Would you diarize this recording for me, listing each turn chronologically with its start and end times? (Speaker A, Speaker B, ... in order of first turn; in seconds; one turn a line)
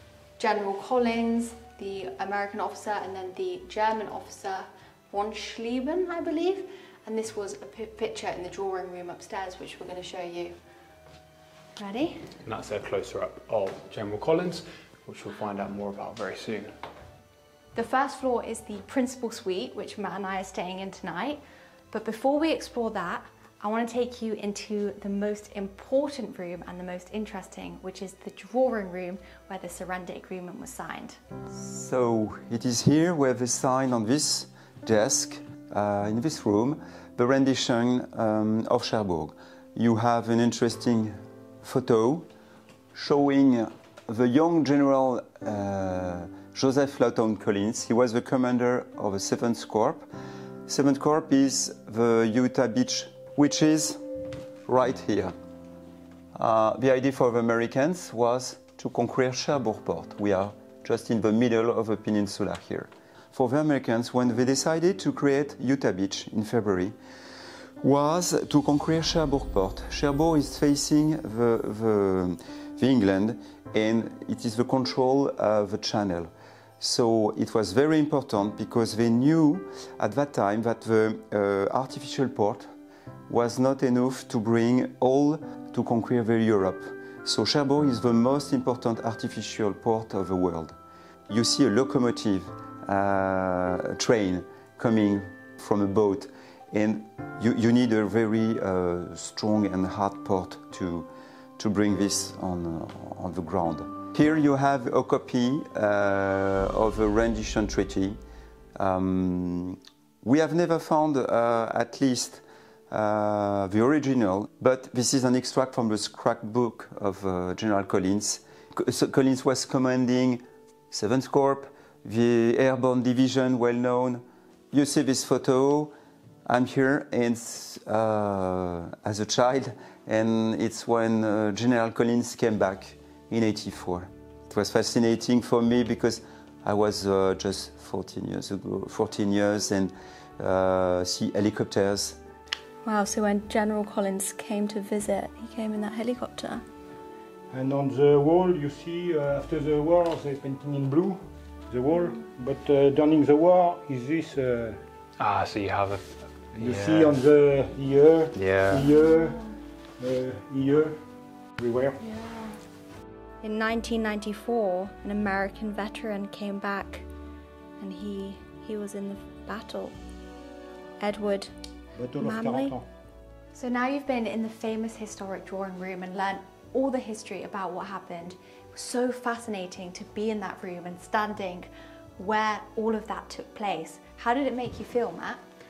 Speaker A: 0.4-10.6
Speaker A: 11.8-12.3
Speaker B: 12.4-16.7
Speaker A: 17.8-31.2
Speaker C: 31.5-42.3
Speaker C: 42.9-50.1
Speaker C: 50.7-54.0
Speaker C: 54.6-55.4
Speaker C: 56.4-67.0
Speaker C: 67.8-82.7
Speaker C: 83.3-90.8
Speaker C: 91.3-108.2
Speaker C: 108.8-125.9
Speaker C: 126.5-142.2
Speaker A: 142.8-146.6
Speaker D: 147.5-154.8
Speaker B: 155.2-157.2
Speaker D: 156.6-159.4
Speaker B: 158.3-158.9
Speaker A: 159.2-159.5
Speaker D: 160.0-161.0
Speaker D: 161.6-162.0
Speaker A: 162.0-162.6
Speaker A: 163.4-167.1
Speaker A: 167.8-170.0
Speaker A: 171.0-171.5
Speaker D: 172.0-172.9
Speaker A: 172.2-172.8
Speaker A: 173.5-185.4